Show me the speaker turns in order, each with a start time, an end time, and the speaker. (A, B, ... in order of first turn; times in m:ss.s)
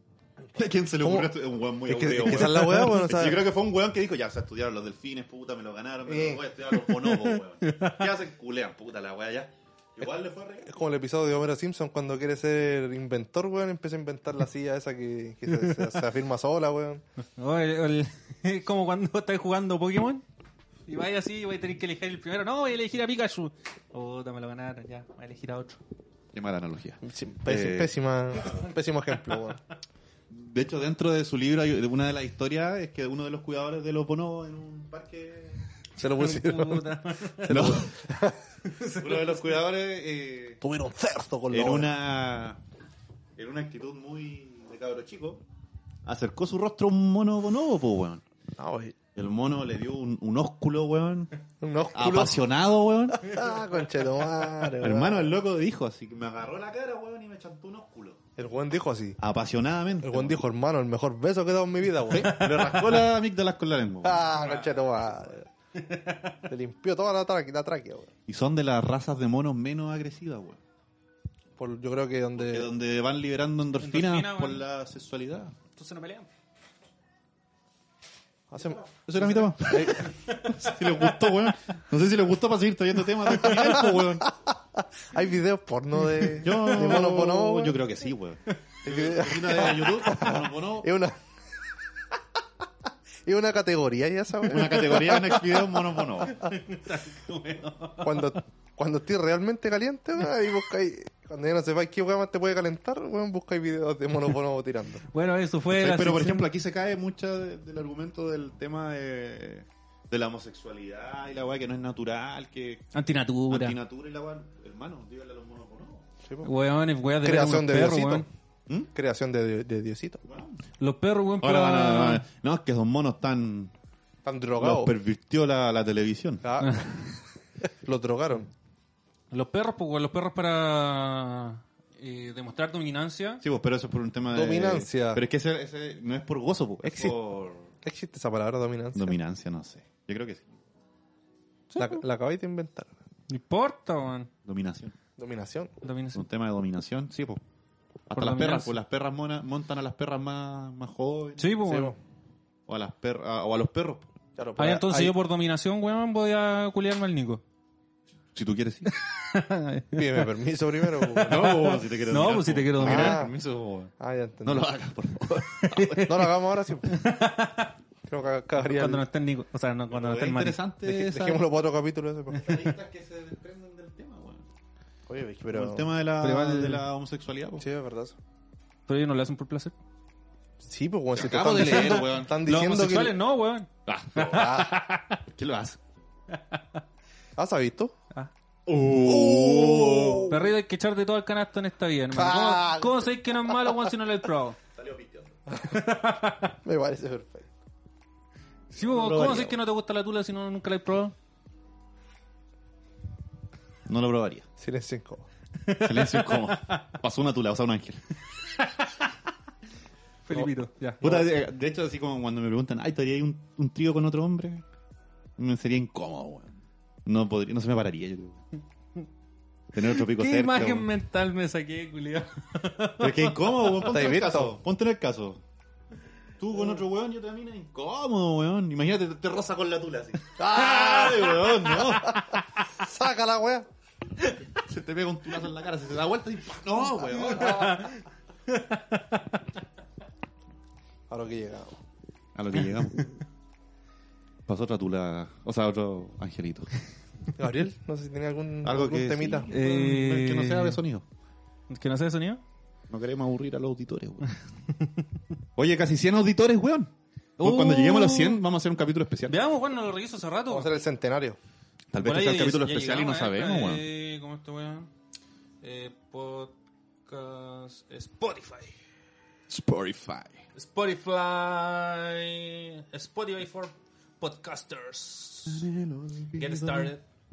0:00.5-0:10.7 A
0:01.0-0:01.3 B
0:01.8-0:03.5 B
0:02.6-0:02.9 C
0:06.0-0:06.4 B
0:06.9-0:08.0 C
0:10.6-0:17.0 B
0:17.4-0:20.2 C
0:20.9-0:25.8 C
0:26.3-0:27.9 A
0:27.0-0:29.6 B
0:30.3-0:35.6 A
0:36.0-0:36.8 B
0:36.0-0:37.9 C
0:37.5-0:37.9 A
0:37.5-0:38.4 B
0:38.6-0:39.6 C
0:39.0-0:40.6 A
0:40.6-0:41.9 B
0:41.5-0:42.6 A
0:43.4-0:45.4 A
0:46.0-0:48.2 A
0:48.6-0:49.0 B
0:49.2-0:51.3 A
0:51.6-0:52.4 B
0:51.9-0:53.4 A
0:53.2-0:55.3 B
0:54.8-0:58.2 A
0:58.4-0:59.2 B
0:59.2-1:00.4 A
1:00.0-1:02.8 B
1:02.1-1:04.3 A
1:02.3-1:02.9 C
1:04.0-1:05.5 B
1:04.3-1:04.7 C
1:05.7-1:06.4 C
1:06.5-1:08.1 B
1:08.3-1:10.6 A
1:11.6-1:12.7 B
1:12.4-1:15.5 A
1:13.8-1:14.6 C
1:15.8-1:16.3 C
1:18.5-1:20.1 B
1:18.8-1:24.3 A
1:19.7-1:21.4 C
1:23.3-1:27.8 B
1:26.4-1:30.9 A
1:28.8-1:31.2 B
1:33.2-1:36.4 B
1:34.4-1:36.4 A
1:36.2-1:38.3 C
1:38.0-1:45.0 B
1:45.1-1:46.5 C
1:45.7-1:52.9 A
1:52.9-1:53.8 C
1:53.5-1:56.0 A
1:56.4-1:58.3 C
1:57.2-1:58.3 B
1:58.9-2:00.2 B
2:00.2-2:00.6 A
2:00.8-2:02.2 C
2:01.4-2:03.7 A
2:04.2-2:04.9 B
2:04.6-2:06.4 A
2:06.4-2:06.8 B
2:06.6-2:07.0 C
2:07.8-2:08.5 B
2:09.3-2:13.4 C
2:13.4-2:17.7 A
2:14.3-2:15.2 B
2:16.8-2:17.2 B
2:17.8-2:19.2 B
2:18.9-2:20.5 A
2:21.7-2:22.0 C
2:21.8-2:22.9 B
2:23.3-2:24.3 C
2:24.4-2:24.9 A
2:25.2-2:25.7 B
2:25.8-2:26.2 C
2:26.1-2:27.4 A
2:28.1-2:31.7 A
2:28.1-2:28.8 C
2:31.4-2:31.9 C
2:31.6-2:32.0 B
2:32.7-2:34.1 A
2:34.4-2:35.1 B
2:34.6-2:37.4 C
2:38.3-2:39.0 A
2:38.9-2:40.3 C
2:39.9-2:41.6 B
2:41.0-2:43.2 C
2:41.2-2:43.9 A
2:42.8-2:43.3 B
2:44.0-2:44.7 B
2:44.4-2:46.1 A
2:45.6-2:46.3 C
2:46.0-2:47.0 B
2:46.8-2:47.7 C
2:48.0-2:49.0 B
2:48.5-2:50.6 C
2:49.9-2:51.5 A
2:50.8-2:52.7 B
2:52.3-2:54.5 A
2:55.1-2:55.9 B
2:55.5-2:57.6 A
2:56.2-2:56.8 C
2:57.6-2:58.2 B
2:58.9-2:59.7 C
3:00.6-3:03.2 B
3:01.2-3:02.4 A
3:01.6-3:03.7 C
3:03.9-3:05.8 A
3:04.2-3:04.7 B
3:06.3-3:06.8 C
3:07.4-3:07.9 B
3:08.6-3:10.3 A
3:09.0-3:10.5 B
3:10.3-3:14.6 C
3:12.1-3:13.9 B
3:14.7-3:15.4 A
3:15.6-3:16.5 C
3:16.6-3:17.5 B
3:18.7-3:21.1 C
3:18.8-3:19.6 A
3:23.9-3:24.4 A
3:24.6-3:25.3 B
3:25.6-3:26.8 C
3:25.8-3:28.0 A
3:28.5-3:29.1 C
3:30.2-3:31.0 C
3:30.3-3:31.3 B
3:31.0-3:34.6 A
3:35.4-3:38.4 A
3:39.7-3:40.9 A
3:40.0-3:43.6 C
3:43.0-3:45.4 A
3:43.8-3:44.6 B
3:46.4-3:52.4 A
3:50.4-3:53.7 B
3:54.5-3:57.8 A
3:57.0-3:57.9 B
3:57.2-3:59.4 C
4:01.1-4:01.8 B
4:02.3-4:03.2 A
4:04.5-4:06.7 A
4:07.4-4:09.5 B
4:08.6-4:11.0 A
4:09.5-4:10.8 C
4:11.7-4:12.4 C
4:12.9-4:14.3 A
4:14.8-4:15.0 C
4:15.6-4:19.4 A
4:17.4-4:18.4 C
4:19.3-4:20.7 C
4:20.5-4:21.4 B
4:21.9-4:23.8 A
4:22.0-4:24.9 C
4:25.6-4:26.5 C
4:27.1-4:28.8 C
4:29.5-4:30.4 A
4:30.5-4:35.6 C
4:35.5-4:36.9 A
4:36.3-4:37.0 C